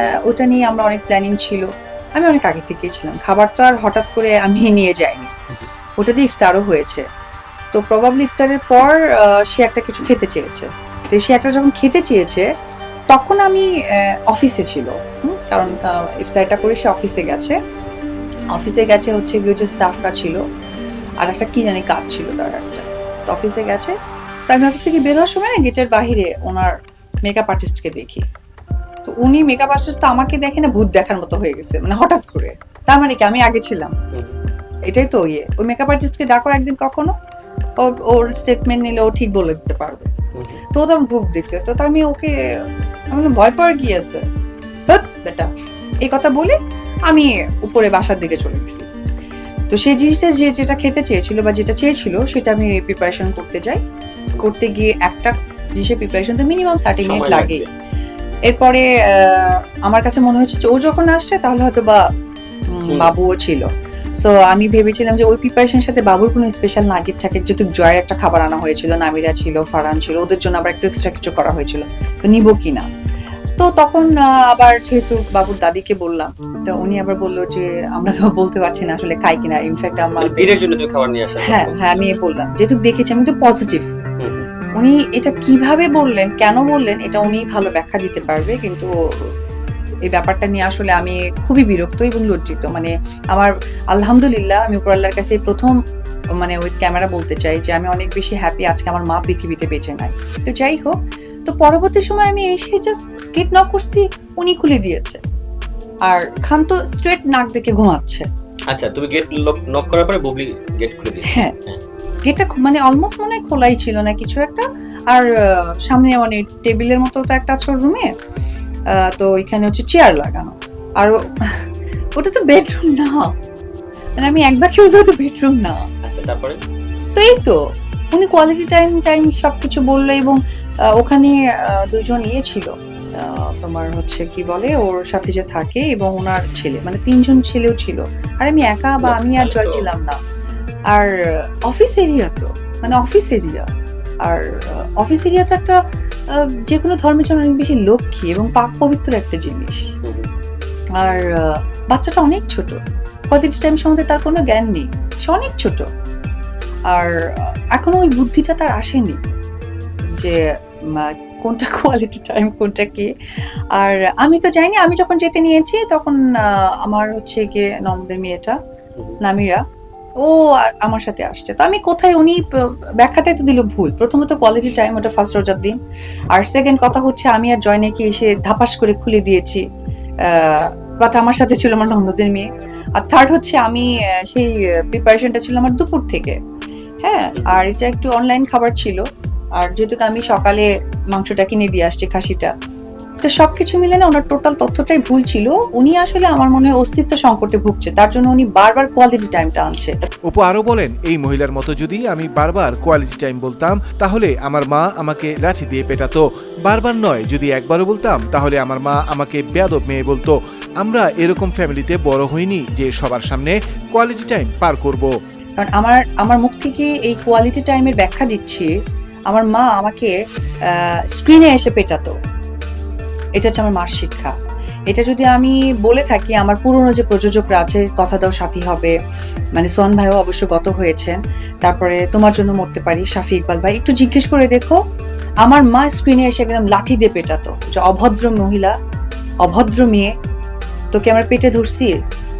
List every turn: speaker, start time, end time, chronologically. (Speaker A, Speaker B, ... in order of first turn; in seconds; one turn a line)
Speaker A: 0.2-5.3
Speaker A: 6.0-7.0
Speaker A: 7.7-12.4
Speaker A: 13.1-13.7
Speaker A: 14.3-17.6
Speaker A: 18.5-20.4
Speaker A: 21.2-23.9
Speaker A: 24.5-26.7
Speaker A: 27.2-28.2
Speaker A: 29.1-33.9
Speaker A: 34.9-37.1
Speaker A: 37.8-40.1
Speaker B: 40.3-40.6
Speaker A: 40.7-42.3
Speaker A: 43.1-44.2
Speaker A: 44.9-45.5
Speaker A: 46.0-46.5
Speaker A: 47.1-48.8
Speaker A: 49.7-53.8
Speaker A: 54.4-57.6
Speaker B: 57.0-57.7
Speaker A: 58.5-62.0
Speaker A: 62.8-63.6
Speaker A: 64.2-72.9
Speaker A: 73.6-80.5
Speaker B: 80.2-82.2
Speaker A: 81.4-83.9
Speaker B: 84.2-84.5
Speaker A: 84.8-88.9
Speaker A: 90.1-95.8
Speaker A: 96.4-105.2
Speaker A: 106.1-108.2
Speaker B: 108.7-111.8
Speaker A: 111.3-111.5
Speaker A: 112.2-115.3
Speaker A: 115.8-118.1
Speaker A: 119.0-121.6
Speaker A: 122.2-123.3
Speaker A: 124.2-125.8
Speaker B: 126.0-126.6
Speaker A: 127.2-127.6
Speaker A: 128.1-130.4
Speaker A: 131.0-140.2
Speaker B: 139.0-139.9
Speaker A: 141.7-143.7
Speaker A: 144.2-145.8
Speaker A: 146.3-149.9
Speaker B: 150.0-150.3
Speaker A: 151.0-152.8
Speaker A: 153.3-155.8
Speaker A: 157.7-159.2
Speaker A: 160.9-163.1
Speaker A: 163.7-166.2
Speaker A: 166.8-168.6
Speaker A: 169.2-169.6
Speaker A: 170.2-172.4
Speaker A: 173.0-175.8
Speaker A: 176.3-179.6
Speaker A: 180.2-182.5
Speaker A: 183.0-186.3
Speaker A: 187.0-189.0
Speaker B: 187.3-187.6
Speaker A: 189.6-192.5
Speaker A: 193.2-199.9
Speaker C: 200.3-215.1
Speaker A: 215.6-218.7
Speaker A: 219.3-220.1
Speaker A: 221.1-222.1
Speaker A: 223.4-224.3
Speaker A: 224.9-228.9
Speaker A: 229.6-234.8
Speaker A: 235.4-238.7
Speaker A: 239.4-240.1
Speaker A: 240.9-241.9